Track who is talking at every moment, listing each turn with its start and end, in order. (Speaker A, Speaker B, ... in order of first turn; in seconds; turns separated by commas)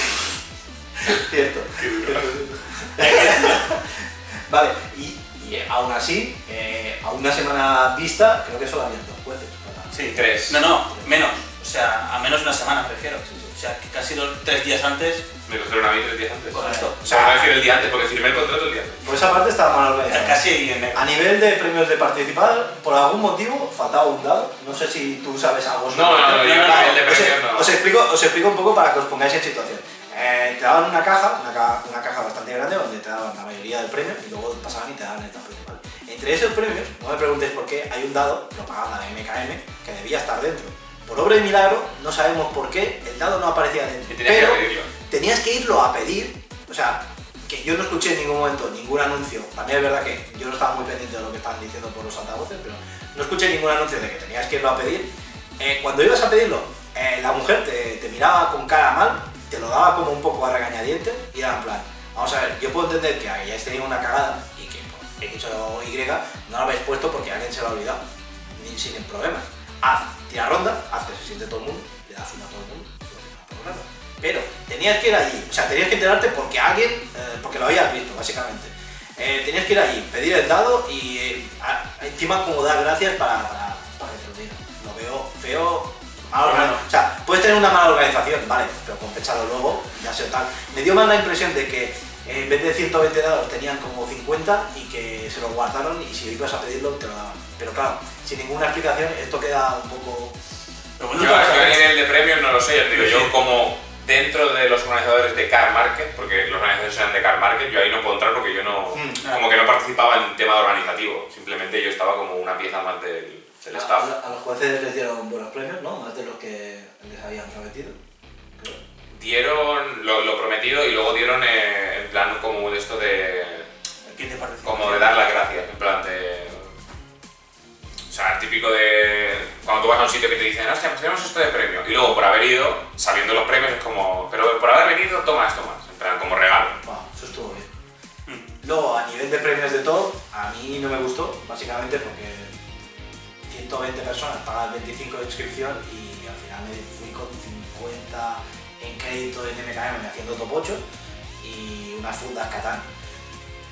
Speaker A: 1.0-10.2, Speaker B: 1.8-2.3, Speaker C: 3.0-3.6, Speaker C: 9.9-15.3, Speaker B: 10.1-10.6, Speaker B: 15.5-19.0, Speaker C: 16.5-17.0, Speaker A: 16.5-17.5, Speaker A: 19.0-68.0, Speaker C: 20.1-21.1, Speaker B: 25.9-27.8, Speaker C: 26.3-27.0, Speaker B: 44.1-44.9, Speaker A: 68.5-100.3, Speaker C: 86.4-86.8, Speaker C: 101.0-101.9, Speaker B: 101.2-114.1, Speaker C: 102.9-103.3, Speaker A: 108.9-109.2, Speaker C: 109.2-109.6, Speaker A: 113.7-118.0, Speaker A: 118.5-118.8, Speaker B: 119.1-123.7, Speaker C: 124.1-125.1, Speaker B: 124.7-126.7, Speaker B: 128.1-136.8, Speaker A: 136.8-137.7, Speaker C: 138.3-138.5, Speaker A: 138.6-142.6, Speaker A: 143.5-150.8, Speaker A: 151.4-152.9